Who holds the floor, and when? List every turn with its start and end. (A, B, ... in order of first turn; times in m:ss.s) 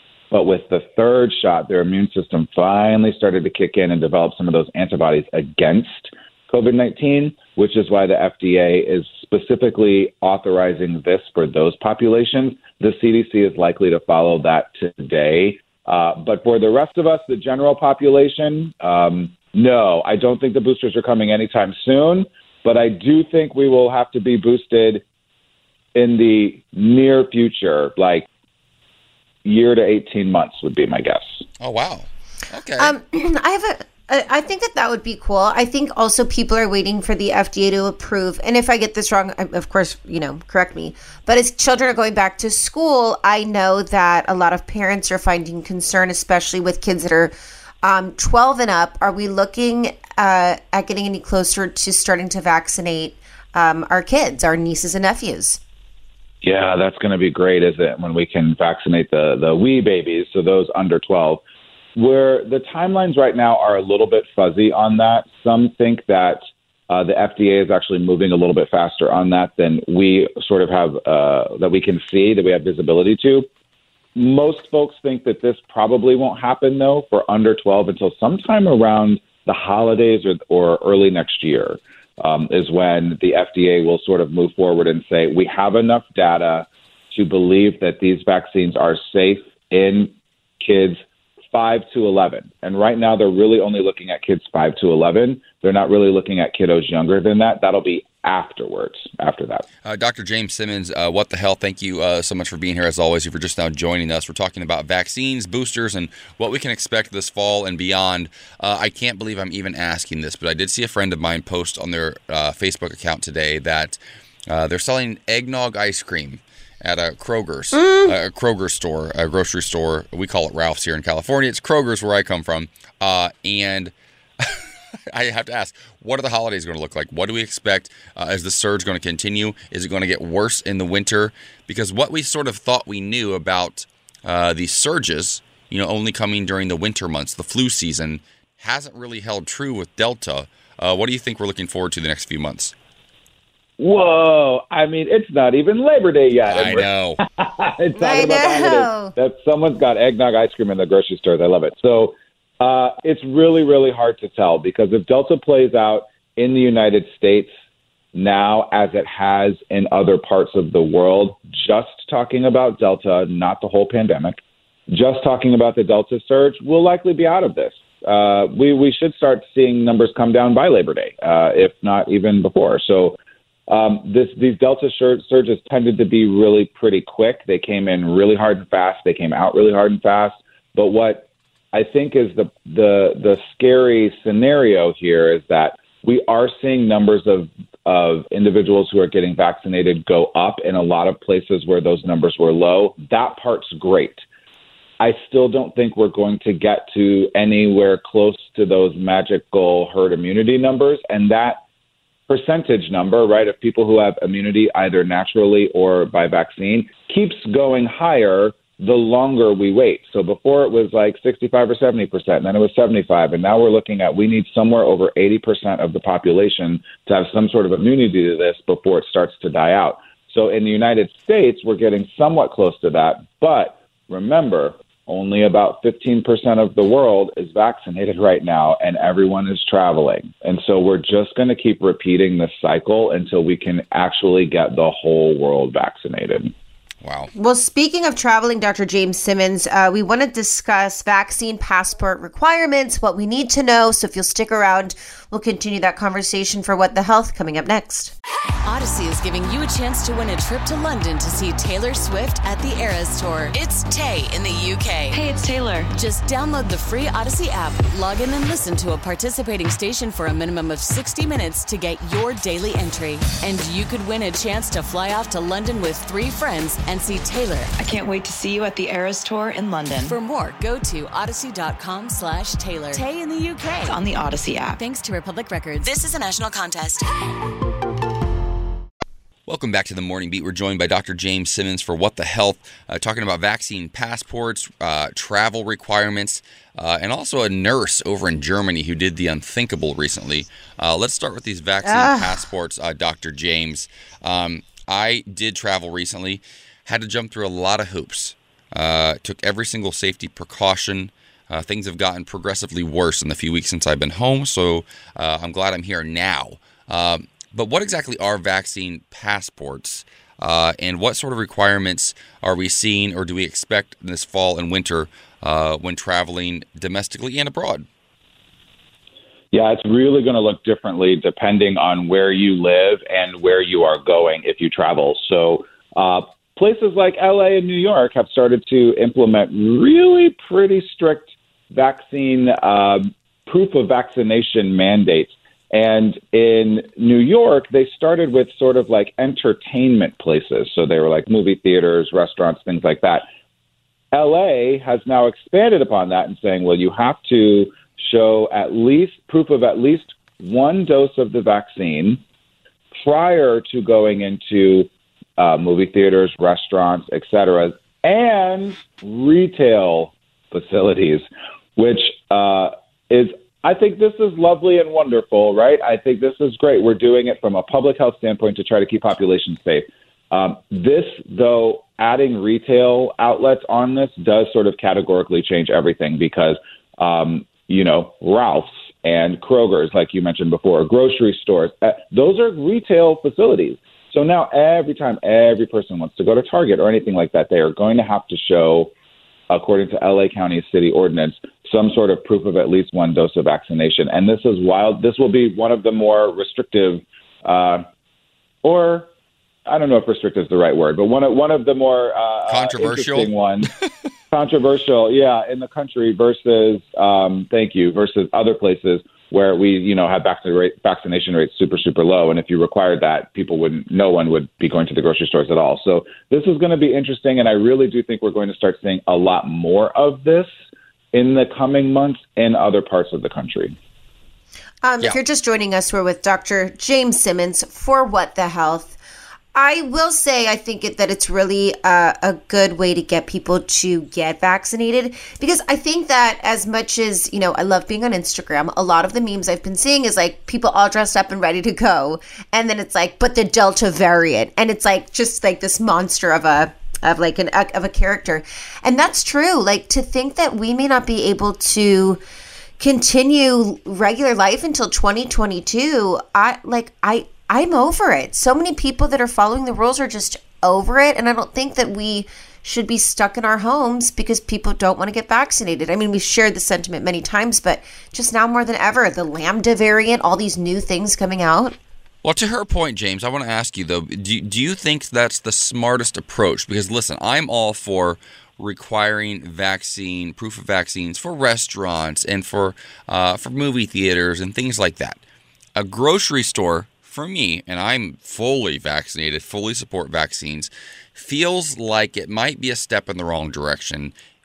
0:00.3-0:25.0 A
0:25.9-0:28.2 A
0:29.4-0:31.4 A
0:31.6-0:33.0 B
0:32.8-0:55.6 C
0:56.4-1:01.4 A
1:02.0-1:13.5 A
1:14.1-1:31.0 A
1:31.5-1:39.6 A
1:39.8-2:22.7 B
1:57.8-1:58.1 C
2:23.8-2:37.5 A
2:26.5-2:27.2 B
2:27.9-2:29.1 C
2:38.1-3:14.2 A
3:15.0-3:21.6 A
3:22.3-3:56.5 A
3:57.0-3:57.3 B
3:57.3-4:08.1 C
4:08.6-4:15.2 D
4:15.1-4:15.9 E
4:16.0-4:27.7 D
4:27.8-4:30.2 E
4:30.0-4:33.9 D
4:33.8-4:34.8 E
4:34.8-4:37.0 D
4:39.5-5:17.9 B
4:51.8-4:52.4 C
5:19.5-5:43.2 A
5:44.1-5:52.2 A
5:53.0-6:01.2 A
6:01.8-6:28.9 A
6:29.5-6:37.8 A
6:38.6-6:39.1 A
6:39.6-6:43.7 A
6:42.5-6:43.3 B
6:44.3-7:00.5 A
7:01.1-7:03.7 A
7:04.8-7:09.0 C
7:09.5-7:32.2 C
7:32.8-7:51.8 C
7:52.2-8:05.2 B
8:05.8-8:14.1 B